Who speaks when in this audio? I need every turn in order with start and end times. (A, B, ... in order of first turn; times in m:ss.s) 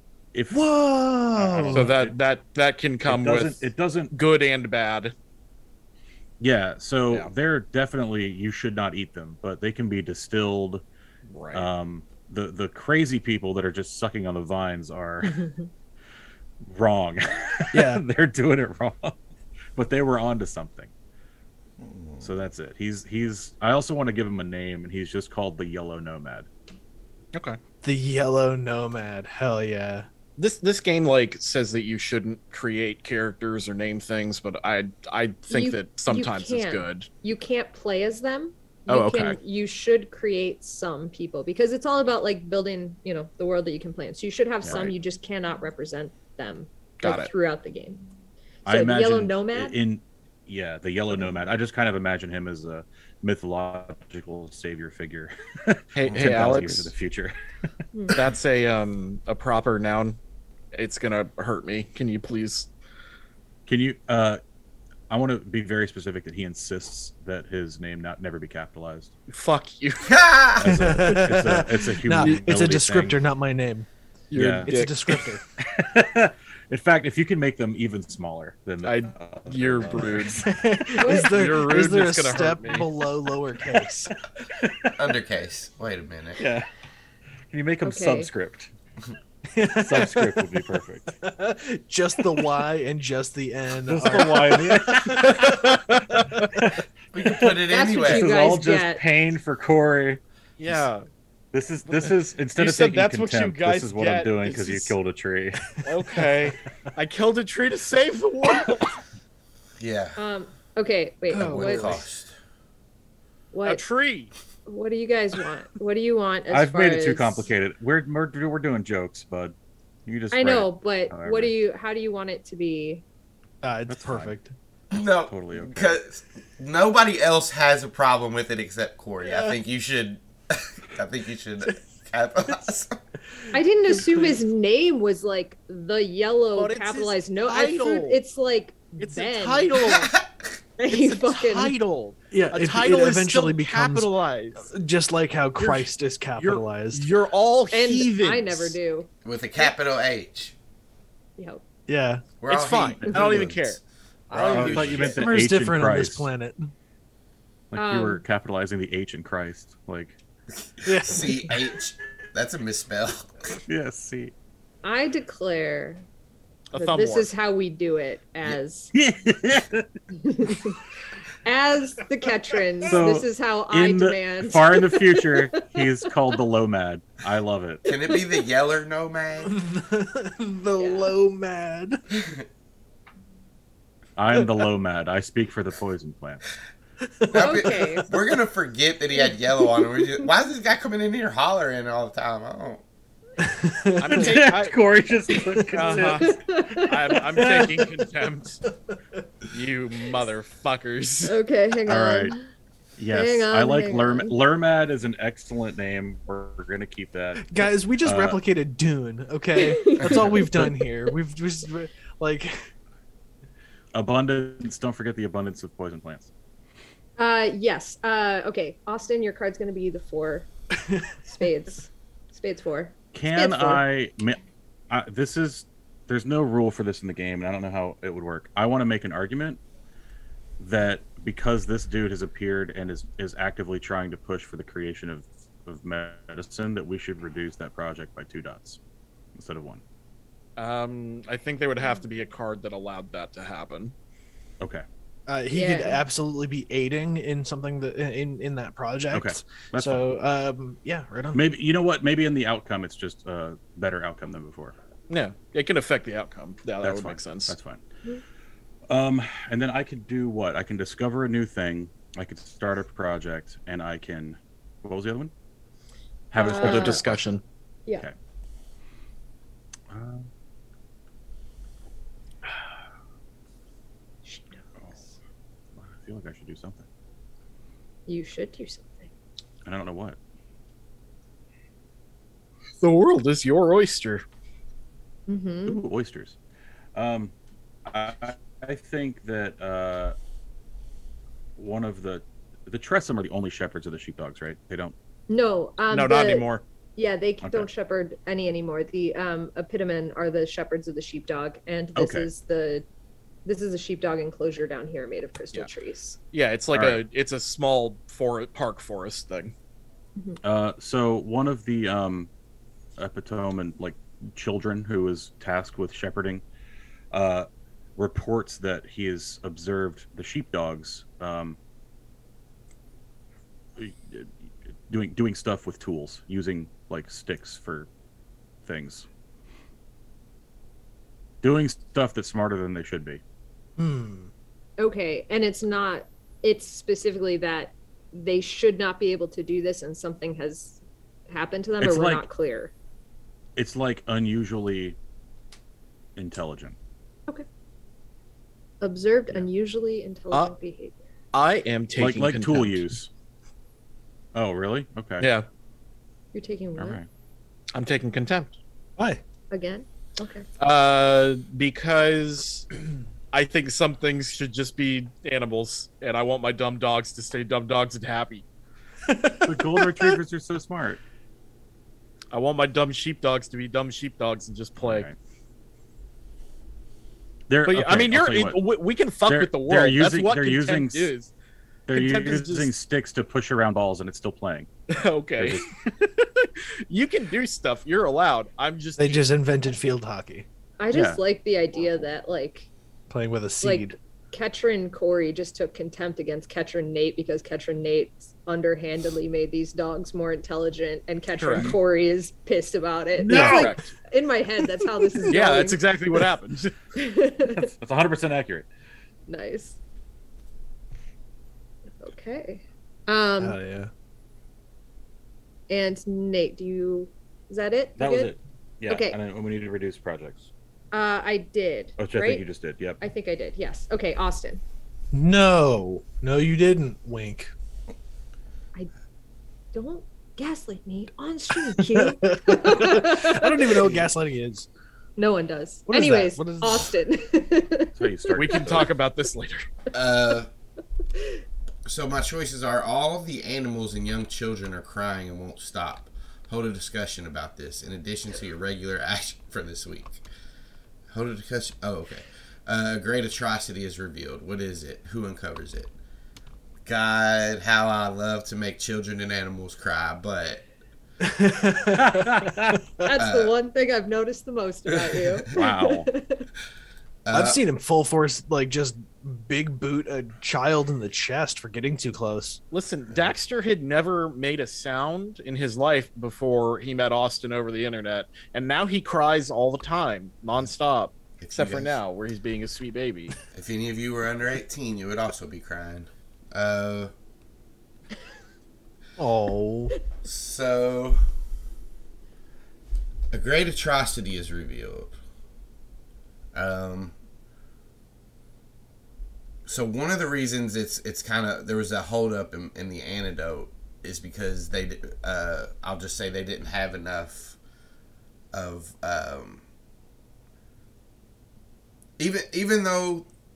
0:00.3-0:00.6 A
0:00.5-0:01.9 B
0:01.3-0:02.1 A
0:01.7-0:05.1 C
0:03.0-0:04.1 A
0:06.4-0:10.8 A
0:11.2-0:11.7 C
0:11.5-0:15.5 A
0:15.4-0:15.6 D
0:16.6-0:19.2 A
0:17.7-0:18.0 B
0:19.7-0:20.9 A
0:21.8-0:22.3 E
0:22.2-0:26.5 A
0:27.3-0:27.6 C
0:27.8-0:30.1 B
0:30.4-0:37.1 C
0:35.5-0:48.0 D
0:38.9-0:39.4 C
0:44.6-0:44.9 A
0:47.0-0:47.3 C
0:48.6-0:49.8 D
0:48.6-0:57.4 A
0:55.9-0:56.9 C
0:57.9-0:58.2 D
0:58.1-1:00.2 C
1:00.7-1:02.7 C
1:03.7-1:04.4 A
1:05.1-1:09.1 A
1:09.3-1:10.2 C
1:10.0-1:10.9 E
1:10.6-1:13.2 A
1:10.6-1:13.9 B
1:12.2-1:12.4 C
1:14.3-1:15.2 C
1:14.3-1:14.9 A
1:14.6-1:15.4 B
1:15.6-1:20.5 A
1:18.8-1:20.4 C
1:20.3-1:24.1 B
1:21.0-1:22.9 C
1:21.0-1:21.4 D
1:24.5-1:25.0 A
1:25.0-1:26.4 E
1:26.4-1:26.7 A
1:27.5-1:28.7 A
1:27.8-1:28.3 D
1:29.5-1:35.8 B
1:29.8-1:31.1 A
1:33.9-1:35.7 A
1:35.0-1:36.5 C
1:36.6-1:40.9 A
1:37.1-1:38.5 E
1:37.7-1:39.0 D
1:40.6-1:41.0 C
1:41.5-1:45.8 A
1:41.9-1:44.9 C
1:45.8-1:49.0 C
1:49.8-1:50.2 E
1:50.2-1:52.0 D
1:51.3-1:52.0 B
1:51.3-1:52.3 E
1:53.5-1:53.8 D
1:53.6-1:54.3 C
1:54.6-1:57.5 D
1:56.5-1:59.5 A
2:00.0-2:01.5 A
2:00.3-2:03.0 D
2:03.6-2:04.5 B
2:03.9-2:04.3 A
2:04.9-2:13.0 E
2:05.3-2:06.0 A
2:09.2-2:09.5 B
2:13.5-2:19.7 D
2:13.9-2:14.4 B
2:16.5-2:18.2 C
2:19.0-2:20.1 C
2:19.8-2:20.3 E
2:20.8-2:21.7 D
2:20.9-2:24.7 C
2:22.3-2:27.1 B
2:25.6-2:28.8 C
2:27.7-2:29.1 D
2:29.2-2:30.5 E
2:31.4-2:31.6 D
2:31.9-2:32.2 B
2:32.4-2:35.3 E
2:32.5-2:35.2 C
2:33.0-2:33.3 A
2:34.5-2:36.3 A
2:34.6-2:36.7 B
2:37.7-2:40.2 A
2:37.7-2:38.2 D
2:40.6-2:43.5 E
2:40.8-2:41.5 B
2:43.7-2:44.3 A
2:44.8-2:46.0 D
2:46.7-2:47.3 C
2:46.7-2:48.9 D
2:48.4-2:49.9 A
2:50.1-2:50.8 D
2:51.4-2:55.5 D
2:52.8-2:57.8 A
2:57.9-2:59.6 E
2:59.4-3:02.0 B
3:00.8-3:01.1 D
3:02.2-3:02.4 E
3:04.2-3:06.4 A
3:07.0-3:08.2 B
3:07.3-3:12.8 E
3:07.3-3:08.1 D
3:09.2-3:10.2 D
3:13.4-3:14.3 B
3:14.0-3:14.8 C
3:14.0-3:16.6 A
3:15.6-3:18.6 C
3:16.1-3:17.2 D
3:17.4-3:17.8 A
3:19.5-3:21.4 C
3:21.2-3:22.5 D
3:21.9-3:22.3 A
3:23.0-3:28.4 A
3:23.1-3:24.3 D
3:27.4-3:32.5 B
3:29.6-3:30.4 D
3:30.0-3:30.3 E
3:30.4-3:30.7 A
3:33.9-3:36.3 A
3:37.2-3:40.5 D
3:40.9-3:41.1 B
3:41.3-3:43.8 D
3:43.1-3:49.6 A
3:50.6-3:58.8 A
3:59.3-3:59.8 A
4:00.6-4:03.9 C
4:05.3-4:11.4 B
4:05.5-4:06.0 D
4:09.1-4:10.1 A
4:11.3-4:14.7 A
4:15.1-4:17.6 C
4:16.8-4:17.8 A
4:18.9-4:25.3 A
4:26.3-4:27.4 A
4:26.3-4:27.1 D
4:26.6-4:27.4 C
4:29.9-4:30.3 A
4:34.2-4:34.6 D
4:35.8-4:36.8 A
4:38.1-4:39.1 D
4:39.6-4:40.2 A
4:42.8-4:44.2 C
4:45.3-4:45.8 D
4:45.6-4:46.4 A
4:46.9-4:47.3 A
4:47.9-4:50.1 A
4:51.6-4:54.9 A
4:55.3-5:02.8 D
4:55.9-4:56.6 C
4:57.4-4:57.7 A
5:02.0-5:02.3 A
5:03.4-5:06.2 D
5:06.3-5:09.5 C
5:06.7-5:07.0 A
5:10.4-5:12.3 A
5:13.0-5:16.4 A
5:17.1-5:21.6 A
5:23.8-5:27.9 A
5:28.6-5:29.0 A
5:31.4-5:33.2 A
5:33.8-5:34.3 B
5:34.8-5:42.7 D
5:41.8-5:42.2 A
5:43.6-5:45.0 A
5:46.2-5:46.8 A
5:48.8-5:51.0 D
5:51.3-5:52.9 C
5:52.0-5:53.1 A
5:54.3-5:55.3 A
5:55.2-5:55.5 C
5:56.3-5:57.0 D
5:56.8-5:57.1 A
5:57.7-5:58.5 C
5:59.5-6:00.4 D
6:00.6-6:02.7 C
6:03.3-6:08.4 C
6:09.0-6:10.2 B
6:09.4-6:11.0 A
6:12.3-6:15.1 C
6:14.8-6:15.2 A
6:17.5-6:18.6 A
6:17.7-6:21.3 C
6:19.2-6:21.1 A
6:21.9-6:24.7 A
6:21.9-6:22.7 C
6:24.9-6:29.3 C
6:25.4-6:25.7 A
6:29.0-6:30.5 B
6:30.8-6:32.7 D
6:30.9-6:31.2 A
6:33.1-6:34.0 B
6:33.6-6:45.8 D
6:41.4-6:41.7 C
6:43.2-6:43.7 A
6:43.3-6:43.9 C
6:43.3-6:43.7 B
6:44.8-6:45.6 B
6:45.3-6:46.7 C
6:46.9-6:47.7 D
6:47.5-6:48.6 A
6:49.3-6:49.8 D
6:52.0-6:53.6 D
6:53.4-6:53.9 B
6:55.7-6:58.3 D
6:58.0-7:00.5 A
6:58.9-6:59.2 D
7:00.9-7:02.4 D
7:02.0-7:03.0 A
7:03.0-7:04.6 D
7:05.1-7:07.5 B
7:09.7-7:13.9 D
7:11.7-7:14.7 B
7:15.2-7:18.8 D
7:15.9-7:16.9 B
7:17.9-7:18.9 A
7:18.3-7:19.7 C
7:19.9-7:20.5 E
7:21.8-7:30.2 E
7:31.1-7:35.9 E
7:36.8-7:40.6 E
7:41.2-7:43.1 B
7:41.9-7:42.8 A
7:43.0-7:46.5 D
7:43.1-7:43.5 E
7:44.9-7:45.4 E
7:45.5-7:46.1 A
7:47.2-7:47.6 E
7:47.3-7:52.6 B
7:52.7-8:03.4 C
8:01.4-8:02.0 E
8:03.5-8:07.1 E
8:09.2-8:09.9 B
8:10.2-8:11.2 E
8:13.3-8:15.1 E
8:16.5-8:17.1 E
8:19.6-8:27.6 E
8:28.5-8:29.6 E
8:32.2-8:33.3 E